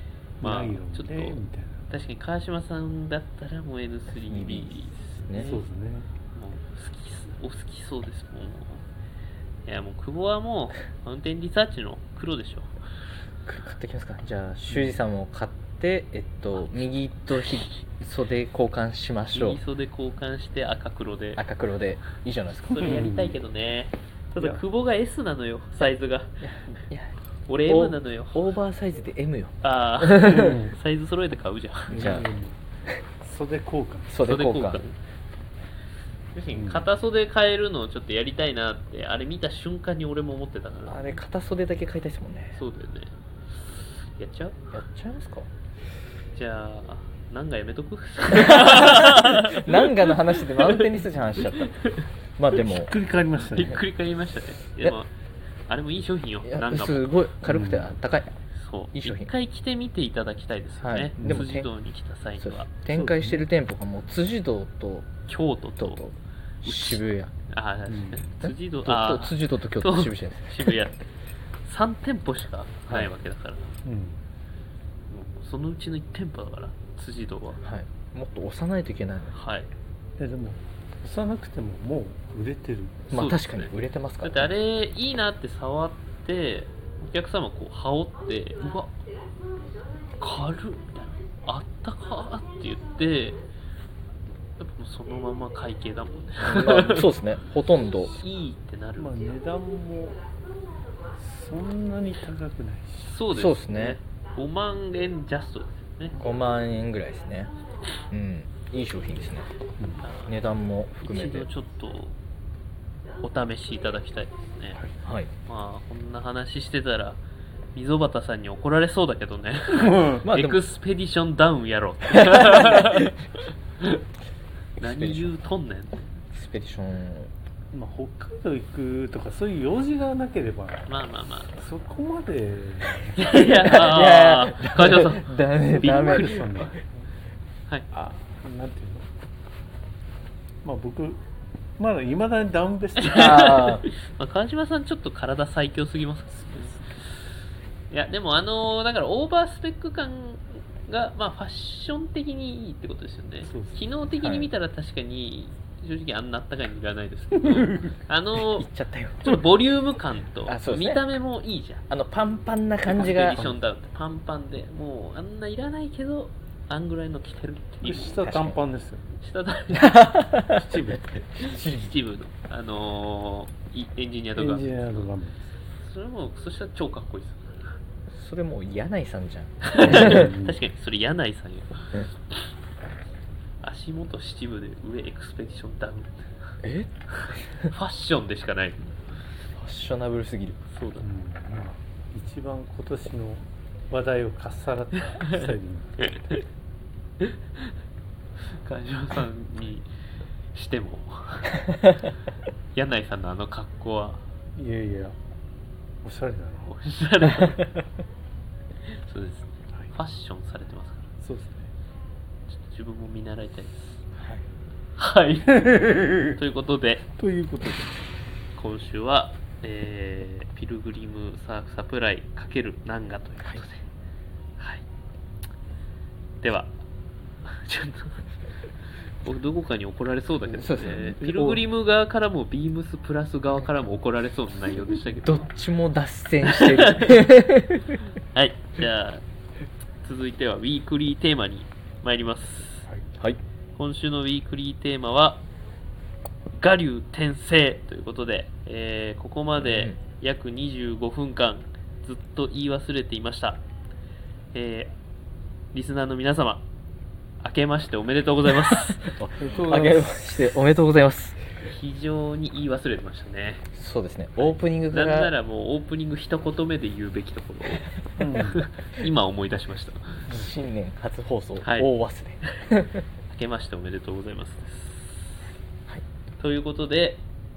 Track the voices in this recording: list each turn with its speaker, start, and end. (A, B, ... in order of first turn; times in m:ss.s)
0:00.4-0:01.9 A
0:00.4-0:01.4 B
0:01.9-0:05.6 B
0:04.1-0:05.5 C
0:05.3-0:06.1 A
0:06.3-0:08.8 B
0:09.6-0:12.7 B
0:13.4-0:19.6 C
0:14.7-0:15.0 A
0:19.3-0:21.4 B
0:21.4-0:23.1 C
0:22.7-0:26.5 B
0:22.8-0:23.4 A
0:24.4-0:24.6 A
0:26.4-0:27.2 C
0:27.5-0:28.4 B
0:27.7-0:30.6 C
0:29.6-0:32.0 B
0:30.2-0:30.8 A
0:31.9-0:32.6 A
0:31.9-0:32.2 C
0:33.2-0:34.2 A
0:34.1-0:34.8 C
0:34.2-0:35.0 B
0:36.3-0:41.1 B
0:36.5-0:36.8 A
0:40.9-0:42.6 C
0:42.6-0:43.1 B
0:43.7-0:44.6 B
0:44.7-0:45.5 C
0:46.3-0:50.9 B
0:48.3-0:51.8 C
0:51.5-0:52.0 B
0:52.4-0:52.9 C
0:52.6-0:53.8 A
0:53.5-0:55.1 B
0:55.7-0:57.1 B
0:56.4-0:58.3 C
0:57.4-0:57.9 A
0:58.6-1:02.7 B
0:58.9-0:59.3 C
1:00.8-1:01.7 C
1:01.2-1:01.5 A
1:02.4-1:05.1 C
1:02.9-1:03.4 A
1:05.3-1:06.0 B
1:05.8-1:07.3 C
1:06.6-1:11.0 B
1:07.9-1:08.3 A
1:08.4-1:10.7 C
1:11.6-1:13.7 B
1:13.8-1:14.2 A
1:15.1-1:17.6 B
1:17.6-1:19.4 C
1:19.3-1:19.7 B
1:20.2-1:23.0 A
1:23.1-1:24.5 C
1:23.1-1:23.7 B
1:24.2-1:28.9 B
1:30.2-1:33.4 B
1:34.6-1:37.1 B
1:36.4-1:38.2 C
1:38.1-1:39.1 B
1:39.0-1:40.2 A
1:41.2-1:43.2 A
1:43.0-1:46.2 B
1:43.3-1:44.0 C
1:46.1-1:47.5 C
1:48.1-1:49.5 C
1:50.0-1:50.3 B
1:50.2-1:51.5 C
1:51.0-1:52.2 B
1:53.2-1:54.8 B
1:55.0-1:55.3 C
1:55.5-1:57.2 B
1:57.7-2:03.1 B
1:59.7-2:00.2 A
2:00.2-2:00.6 C
2:02.1-2:03.1 C
2:04.8-2:05.5 C
2:04.8-2:06.0 B
2:06.3-2:07.3 C
2:07.7-2:10.9 A
2:10.9-2:11.5 B
2:11.5-2:13.8 A
2:13.2-2:16.4 B
2:13.6-2:16.7 C
2:14.9-2:17.0 A
2:17.9-2:19.0 A
2:20.6-2:21.2 A
2:21.8-2:23.7 A
2:23.0-2:27.1 B
2:23.1-2:23.8 C
2:26.5-2:26.8 A
2:27.9-2:38.7 B
2:33.4-2:33.8 A
2:34.1-2:34.5 C
2:37.5-2:37.9 A
2:38.5-2:39.4 C
2:39.2-2:41.8 B
2:40.5-2:41.0 C
2:41.9-2:43.5 C
2:42.9-2:48.3 B
2:47.8-2:49.1 A
2:48.2-2:48.6 C
2:49.2-2:50.0 B
2:49.7-2:50.6 C
2:50.5-2:51.4 A
2:51.4-2:51.9 C
2:51.4-2:55.1 B
2:54.4-2:55.6 A
2:55.8-2:57.8 B
2:58.1-3:00.3 C
2:59.6-3:02.4 B
2:59.8-3:00.6 A
3:03.6-3:06.2 B
3:06.6-3:07.7 C
3:07.1-3:09.0 B
3:09.5-3:10.6 C
3:10.7-3:11.0 B
3:11.0-3:16.4 A
3:18.6-3:19.9 B
3:20.5-3:21.6 B
3:22.7-3:24.2 B
3:24.6-3:25.2 A
3:26.0-3:26.7 A
3:26.7-3:27.7 B
3:28.9-3:31.0 B
3:31.2-3:31.7 A
3:32.6-3:34.0 B
3:34.2-3:34.4 A
3:35.0-3:37.0 B
3:35.5-3:36.3 A
3:37.2-3:38.0 A
3:38.6-3:43.8 B
3:44.6-3:44.8 B
3:46.4-3:46.8 B
3:47.4-3:48.2 B
3:49.0-3:55.5 B
3:50.5-3:51.6 C
3:54.9-3:55.2 A
3:55.2-3:58.0 C
3:56.4-3:57.2 B
3:58.3-3:59.2 B
4:00.0-4:02.8 B
4:03.8-4:05.4 B
4:06.6-4:13.6 B
4:09.6-4:10.0 C
4:14.5-4:14.9 B
4:15.7-4:16.6 B
4:17.4-4:19.1 B
4:18.7-4:21.4 C
4:19.4-4:20.5 A
4:21.6-4:23.6 B
4:23.7-4:25.3 C
4:24.9-4:30.3 B
4:28.2-4:28.7 A
4:30.3-4:30.5 A
4:30.3-4:33.0 C
4:31.6-4:31.9 B
4:33.3-4:35.4 B
4:36.4-4:37.2 B